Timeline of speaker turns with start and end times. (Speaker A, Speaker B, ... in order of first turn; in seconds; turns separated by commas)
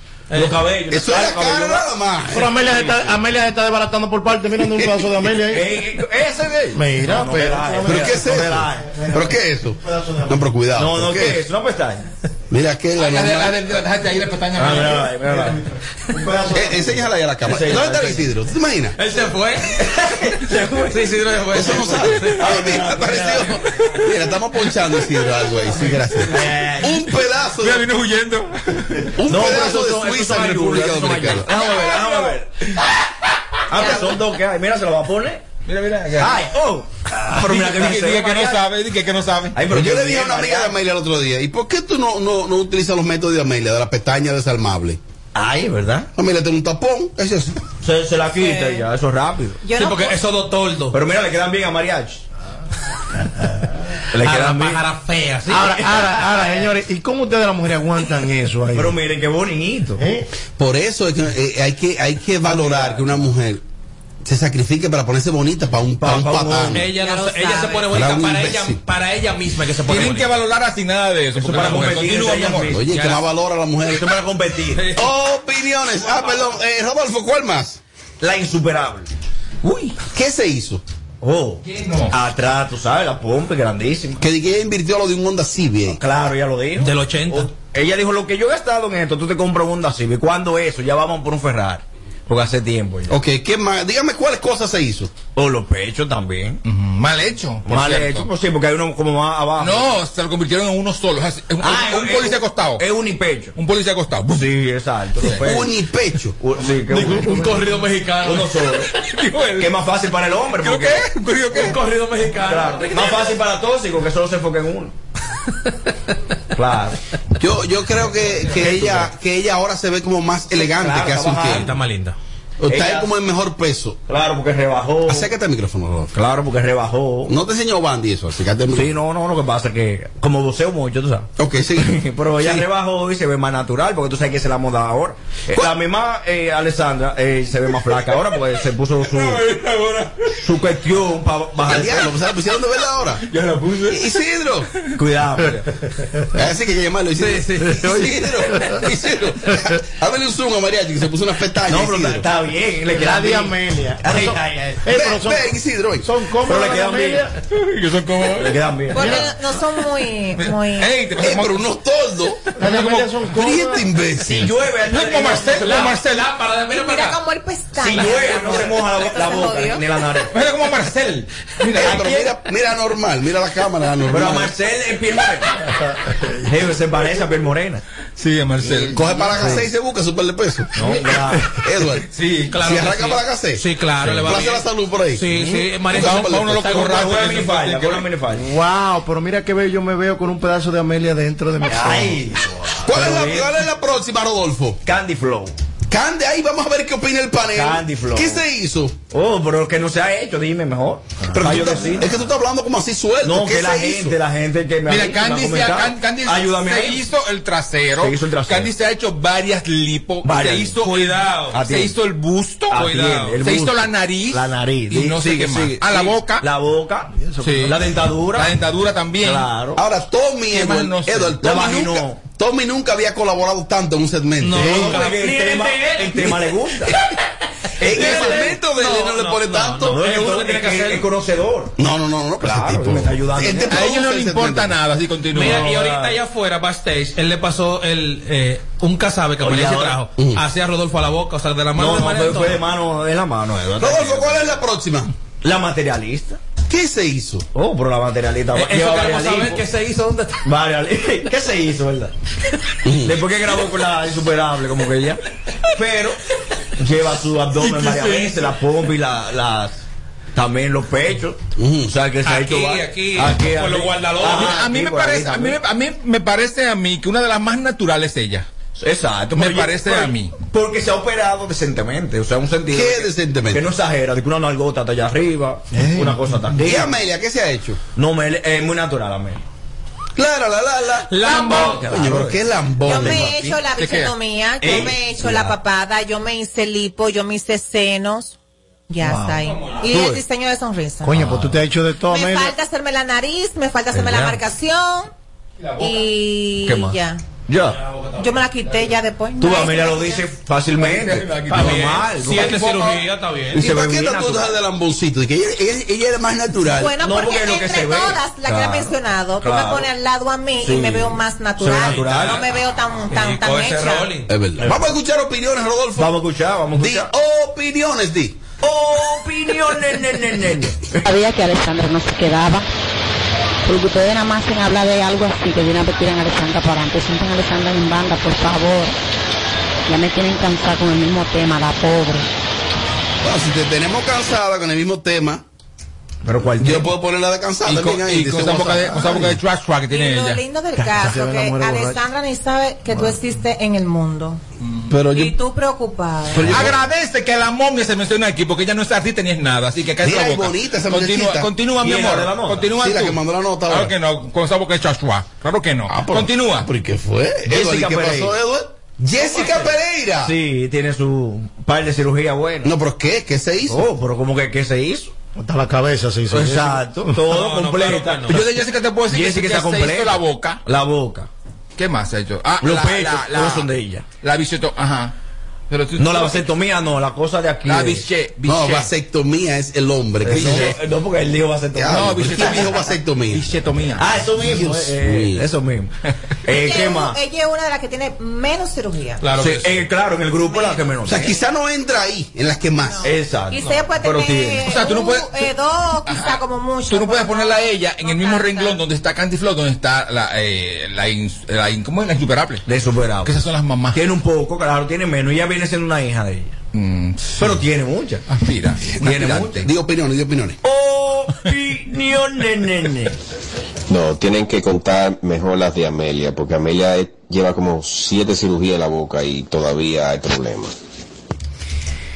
Speaker A: 0.3-0.6, Speaker B: 0.3-1.9, Speaker C: 0.9-2.6, Speaker D: 2.3-5.7, Speaker C: 4.6-5.1, Speaker B: 5.5-8.9, Speaker D: 6.7-10.4, Speaker C: 7.8-11.4, Speaker B: 10.8-12.0, Speaker C: 12.5-13.6, Speaker E: 13.0-15.1, Speaker B: 14.5-15.6, Speaker D: 16.1-16.9, Speaker B: 16.2-16.8, Speaker C: 16.5-18.9, Speaker B: 17.4-18.3, Speaker A: 18.9-19.8, Speaker B: 19.7-23.4, Speaker A: 20.8-22.7, Speaker C: 21.5-27.9, Speaker B: 26.3-27.1, Speaker E: 27.6-29.1, Speaker C: 29.2-31.5, Speaker B: 29.2-32.5, Speaker E: 31.7-32.3, Speaker B: 33.7-35.4, Speaker E: 35.6-36.5, Speaker B: 36.1-38.6, Speaker E: 37.3-39.6, Speaker B: 39.5-40.8, Speaker C: 39.6-45.0, Speaker B: 45.3-46.1, Speaker C: 46.1-47.6, Speaker B: 47.8-49.6, Speaker F: 48.4-48.8, Speaker F: 49.6-50.2, Speaker A: 49.7-51.0, Speaker B: 50.9-52.2, Speaker B: 54.1-54.8, Speaker A: 54.2-56.1, Speaker D: 55.5-59.0, Speaker B: 58.7-60.0, Speaker D: 60.0-60.2, Speaker C: 60.6-63.6, Speaker B: 62.4-63.3, Speaker C: 64.2-66.8, Speaker B: 66.0-66.8, Speaker A: 66.7-70.3, Speaker F: 66.9-67.9, Speaker C: 67.9-68.8, Speaker E: 69.9-72.8, Speaker B: 71.3-73.1, Speaker C: 72.7-74.1, Speaker B: 73.8-74.9, Speaker C: 74.9-77.8, Speaker B: 78.2-79.1, Speaker B: 79.6-80.0, Speaker C: 80.0-80.8, Speaker B: 81.2-84.2, Speaker E: 81.6-82.1, Speaker C: 84.2-86.0, Speaker B: 85.9-93.2, Speaker A: 86.8-87.5, Speaker C: 93.1-95.2, Speaker B: 95.3-96.6, Speaker E: 96.6-98.3, Speaker B: 97.7-100.0, Speaker E: 99.6-102.8, Speaker B: 101.6-103.5, Speaker E: 103.5-104.5, Speaker B: 104.3-105.7, Speaker E: 105.2-105.4, Speaker C: 105.3-106.4, Speaker B: 106.4-107.6, Speaker A: 106.9-108.5, Speaker B: 108.2-108.9, Speaker E: 108.9-109.8, Speaker B: 109.6-111.0, Speaker E: 110.5-111.8, Speaker A: 111.5-113.3, Speaker B: 112.4-114.9, Speaker B: 116.5-117.0, Speaker C: 117.4-121.7, Speaker B: 118.5-119.1, Speaker B: 120.5-121.7, Speaker A: 121.5-122.2, Speaker C: 122.6-124.0, Speaker B: 122.7-123.1, Speaker B: 124.1-125.3, Speaker C: 125.1-126.1, Speaker B: 126.1-127.3, Speaker C: 127.3-128.9, Speaker B: 128.7-139.5, Speaker C: 131.4-132.7, Speaker E: 139.0-140.2, Speaker B: 140.4-142.1, Speaker C: 141.6-143.2, Speaker E: 143.2-144.2, Speaker C: 143.9-144.7, Speaker B: 144.9-145.6, Speaker C: 146.3-152.2, Speaker B: 151.7-154.8, Speaker D: 152.9-157.3, Speaker C: 154.9-156.1, Speaker B: 156.4-157.3, Speaker E: 157.5-158.5, Speaker B: 158.3-159.2, Speaker F: 158.9-160.9, Speaker D: 158.9-159.3, Speaker E: 160.3-161.7, Speaker C: 161.1-162.4, Speaker D: 162.6-163.9, Speaker E: 162.6-163.2, Speaker C: 163.3-164.6, Speaker B: 164.2-165.9, Speaker E: 164.9-166.3, Speaker A: 165.5-167.2, Speaker F: 166.7-169.8, Speaker B: 167.8-170.3, Speaker A: 167.9-168.6, Speaker E: 170.3-172.2, Speaker C: 171.8-174.5, Speaker B: 171.8-172.3, Speaker B: 174.1-175.5, Speaker D: 176.0-176.4, Speaker B: 176.4-177.8, Speaker E: 178.2-179.5, Speaker C: 178.9-180.8, Speaker D: 179.4-179.7, Speaker B: 180.7-181.5, Speaker C: 181.5-182.1, Speaker E: 182.1-182.8, Speaker A: 182.5-187.0, Speaker C: 182.6-183.6, Speaker E: 184.0-184.4, Speaker C: 184.2-185.2, Speaker D: 185.3-185.6, Speaker E: 185.9-188.1, Speaker C: 185.9-186.6, Speaker B: 186.6-188.4, Speaker D: 188.3-192.2, Speaker B: 191.6-193.6, Speaker C: 192.8-194.8, Speaker B: 194.8-195.5, Speaker C: 195.9-199.0, Speaker B: 197.5-198.4, Speaker B: 199.1-202.1, Speaker C: 201.3-204.2, Speaker B: 203.2-207.1, Speaker E: 204.8-216.4, Speaker B: 208.0-208.7, Speaker B: 210.2-210.8, Speaker A: 210.8-211.6, Speaker B: 211.5-212.0, Speaker B: 212.7-218.6, Speaker D: 217.2-217.5, Speaker E: 217.4-217.8, Speaker E: 218.3-219.5, Speaker B: 219.2-219.8, Speaker C: 219.8-224.8, Speaker E: 220.5-221.4, Speaker B: 221.4-222.3, Speaker A: 224.4-226.3, Speaker B: 224.5-226.9, Speaker D: 224.6-224.9, Speaker B: 227.8-228.6, Speaker C: 227.8-230.0, Speaker A: 227.9-231.1, Speaker B: 229.9-231.7, Speaker C: 231.8-234.8, Speaker B: 232.4-233.8, Speaker E: 233.7-235.8, Speaker A: 235.3-242.6, Speaker B: 235.4-236.2, Speaker B: 239.4-240.0, Speaker B: 241.7-244.6, Speaker C: 243.8-245.1, Speaker B: 245.4-246.4, Speaker C: 246.7-247.5, Speaker B: 247.5-249.6, Speaker A: 248.5-250.4, Speaker B: 250.4-252.1, Speaker C: 252.8-253.2, Speaker B: 253.0-255.2, Speaker B: 255.7-256.2, Speaker B: 256.8-265.6, Speaker E: 257.6-258.3, Speaker A: 258.0-258.3, Speaker C: 261.6-261.9, Speaker A: 262.2-264.6, Speaker E: 264.2-268.5, Speaker B: 268.8-276.9, Speaker E: 269.3-270.4, Speaker C: 272.7-273.6, Speaker D: 275.7-276.6, Speaker C: 276.6-277.8, Speaker B: 277.9-279.4, Speaker C: 280.2-283.4, Speaker A: 281.1-282.0, Speaker B: 281.2-283.3, Speaker E: 281.3-281.9, Speaker F: 282.8-288.4, Speaker E: 283.1-284.1, Speaker B: 284.6-285.6, Speaker F: 288.9-291.2, Speaker B: 289.9-290.2, Speaker D: 291.0-292.5, Speaker B: 291.2-291.5, Speaker F: 292.1-295.1, Speaker B: 293.9-294.4, Speaker E: 295.6-296.0, Speaker F: 295.8-297.2, Speaker B: 296.6-297.8, Speaker F: 298.2-300.3, Speaker B: 299.4-302.8, Speaker E: 300.8-302.6, Speaker A: 301.5-303.6, Speaker B: 303.5-304.6, Speaker C: 303.5-307.0, Speaker F: 306.8-314.1, Speaker B: 306.9-309.9, Speaker B: 310.6-312.5, Speaker A: 311.7-312.5, Speaker A: 313.1-314.3, Speaker C: 314.3-316.2, Speaker B: 314.6-314.9, Speaker B: 316.0-317.1, Speaker C: 316.7-318.4, Speaker B: 318.6-321.0, Speaker G: 321.0-322.6, Speaker G: 323.6-328.9, Speaker G: 329.9-332.2, Speaker C: 333.2-335.4, Speaker B: 336.2-336.9, Speaker C: 336.6-339.4, Speaker E: 337.6-340.4, Speaker F: 339.9-344.4, Speaker D: 340.8-342.0, Speaker E: 344.6-344.9, Speaker C: 344.9-345.4, Speaker F: 345.1-346.5, Speaker C: 346.3-346.8, Speaker E: 346.4-356.7, Speaker C: 350.0-351.5, Speaker B: 351.7-352.8, Speaker C: 352.8-353.9, Speaker C: 355.9-360.3, Speaker B: 357.5-358.4, Speaker B: 359.1-362.7, Speaker C: 362.6-363.9, Speaker B: 363.7-365.1, Speaker D: 365.4-367.2, Speaker B: 366.3-371.3, Speaker A: 367.3-368.4, Speaker E: 368.3-370.6, Speaker E: 371.8-373.7, Speaker B: 372.6-374.1, Speaker E: 374.2-375.1, Speaker E: 375.7-376.5, Speaker B: 376.0-378.1, Speaker E: 377.6-378.9, Speaker C: 378.4-380.8, Speaker B: 380.2-382.5, Speaker E: 380.3-380.7, Speaker C: 381.7-383.5, Speaker E: 381.9-384.2, Speaker B: 384.0-385.9, Speaker C: 384.4-385.4, Speaker B: 386.4-387.2, Speaker F: 386.5-389.3, Speaker A: 389.2-389.7, Speaker B: 389.3-391.4, Speaker F: 390.4-390.9, Speaker C: 391.0-393.1, Speaker F: 392.9-398.8, Speaker B: 393.0-394.7, Speaker E: 394.6-395.5, Speaker E: 396.1-402.6, Speaker B: 402.6-403.4, Speaker E: 403.2-404.1, Speaker B: 403.9-406.6, Speaker E: 406.7-407.6, Speaker B: 407.4-408.2, Speaker E: 408.3-409.6, Speaker B: 409.0-409.7, Speaker C: 409.0-410.6, Speaker B: 410.6-413.1, Speaker H: 413.9-420.8